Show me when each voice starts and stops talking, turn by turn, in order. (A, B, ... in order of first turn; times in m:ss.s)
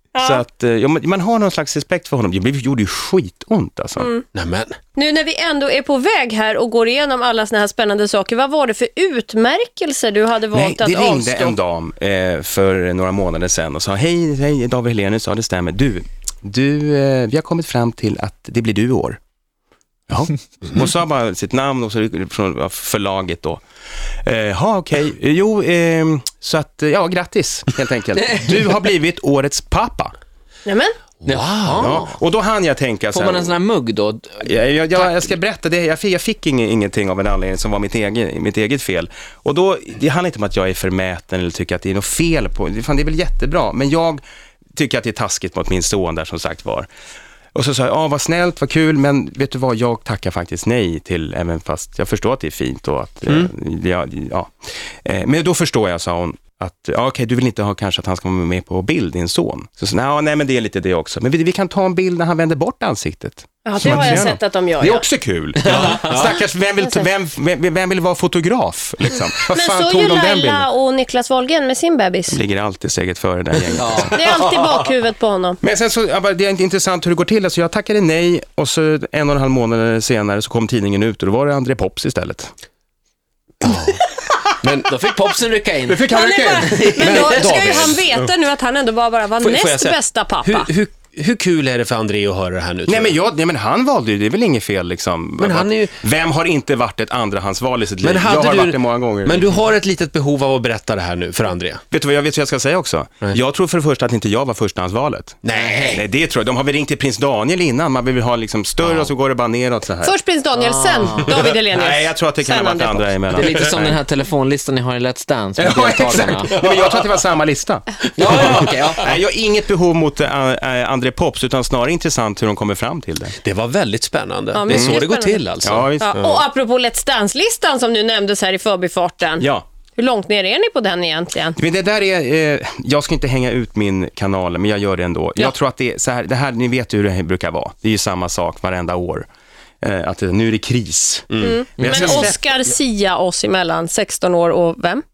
0:00.1-0:00.4 A
0:00.2-0:04.1 B
0:04.0-0:04.2 A
0:04.3-0:04.8 C
0:05.0-0:11.6 A
0:10.5-0:19.2 B
0:20.1-0:23.6 B
0:24.2-0:30.1 B
0:30.6-0:30.9 A
0:31.2-0:32.1 D
0:31.2-0:31.9 C
0:31.8-0:33.6 B
0:33.1-0:35.3 D
0:34.4-0:44.2 B
0:44.7-0:46.9 B
0:47.5-0:54.5 B
0:53.3-0:53.5 C
0:55.0-1:10.7 B
1:03.6-1:05.0 A
1:05.7-1:06.2 D
1:05.9-1:06.2 C
1:06.8-1:07.1 A
1:09.5-1:12.4 A
1:12.3-1:14.7 B
1:13.8-1:14.2 D
1:14.0-1:15.6 A
1:15.6-1:22.5 B
1:23.6-1:24.0 C
1:24.6-1:24.9 C
1:24.6-1:27.6 D
1:25.9-1:28.3 B
1:26.1-1:30.7 A
1:26.6-1:28.1 C
1:29.4-1:33.2 C
1:32.9-1:39.5 B
1:35.4-1:35.9 C
1:38.0-1:41.8 C
1:41.9-1:50.1 B
1:45.4-1:46.0 C
1:45.5-1:46.0 D
1:48.8-1:49.1 C
1:50.0-1:53.1 A
1:50.6-1:51.4 D
1:51.6-1:54.0 B
1:53.3-1:56.6 D
1:55.6-2:03.3 B
1:58.2-1:59.1 D
2:03.4-2:06.2 C
2:04.5-2:05.4 A
2:04.6-2:05.0 B
2:05.6-2:06.4 B
2:06.0-2:11.6 A
2:09.4-2:09.7 B
2:11.6-2:19.2 B
2:19.8-2:22.3 B
2:21.3-2:22.3 C
2:21.4-2:25.0 A